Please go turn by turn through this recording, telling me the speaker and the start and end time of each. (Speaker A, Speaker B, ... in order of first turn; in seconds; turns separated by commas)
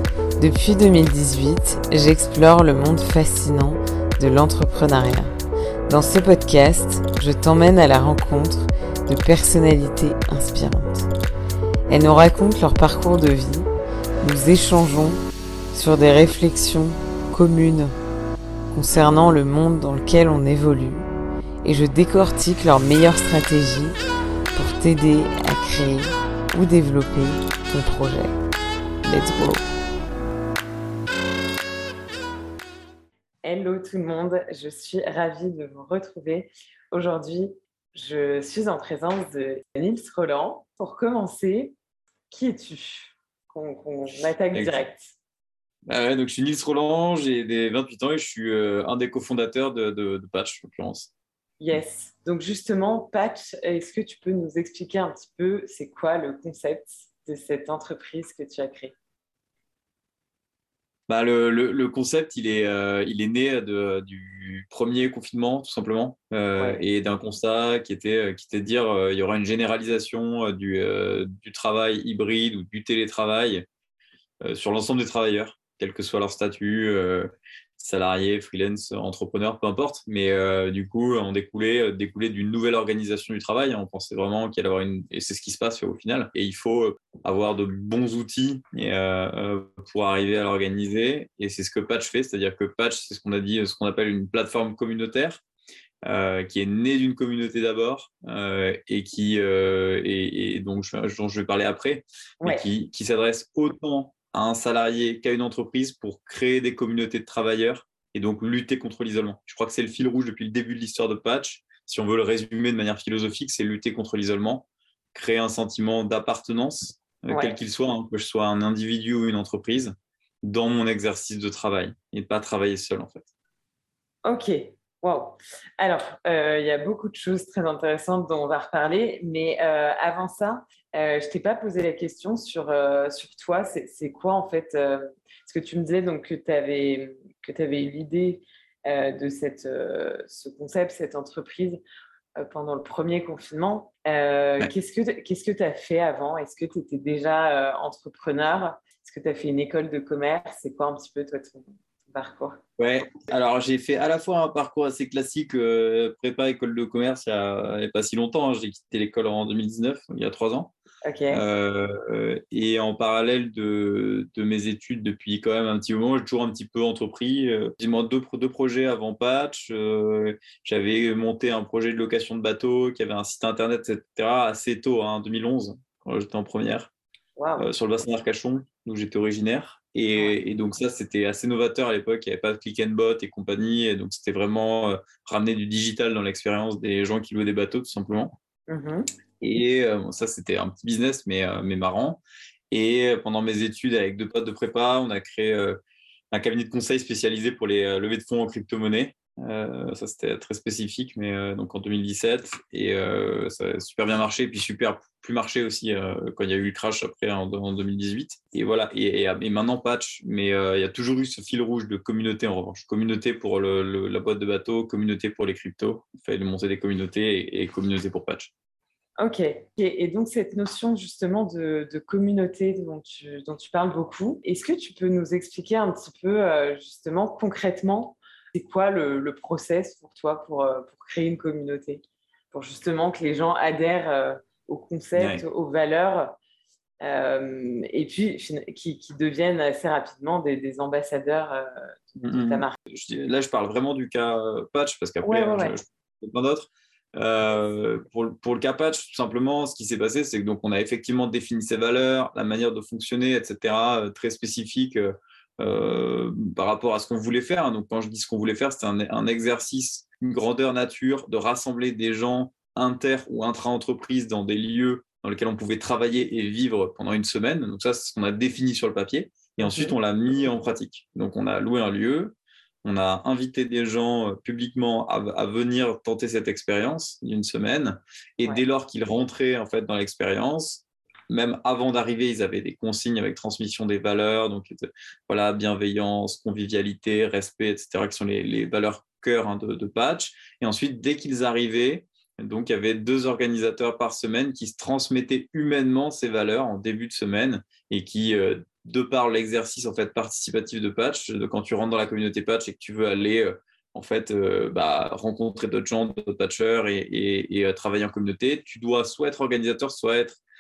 Speaker A: 0.4-5.3, Speaker A: 5.9-11.1, Speaker A: 11.9-13.7, Speaker A: 14.2-15.2, Speaker A: 15.7-17.9, Speaker A: 18.7-21.1, Speaker A: 21.6-24.0, Speaker A: 24.6-28.4, Speaker A: 29.1-29.7, Speaker A: 33.4-41.8, Speaker A: 42.3-45.1, Speaker B: 44.5-44.8, Speaker B: 45.9-51.1, Speaker A: 51.6-58.9, Speaker B: 61.1-73.7, Speaker A: 66.6-66.8, Speaker B: 74.4-95.4, Speaker B: 96.0-123.3, Speaker A: 102.4-102.7, Speaker A: 117.3-117.6, Speaker A: 124.2-141.8, Speaker A: 142.4-152.6, Speaker B: 152.8-160.7, Speaker A: 161.0-161.4, Speaker B: 161.3-176.9, Speaker A: 177.4-177.7, Speaker B: 177.6-188.3, Speaker A: 188.7-189.1, Speaker B: 189.4-195.8, Speaker B: 196.3-218.5, Speaker A: 219.2-236.4, Speaker B: 235.2-235.4, Speaker A: 237.0-242.8, Speaker B: 242.2-310.4, Speaker A: 245.2-245.8, Speaker A: 269.6-269.9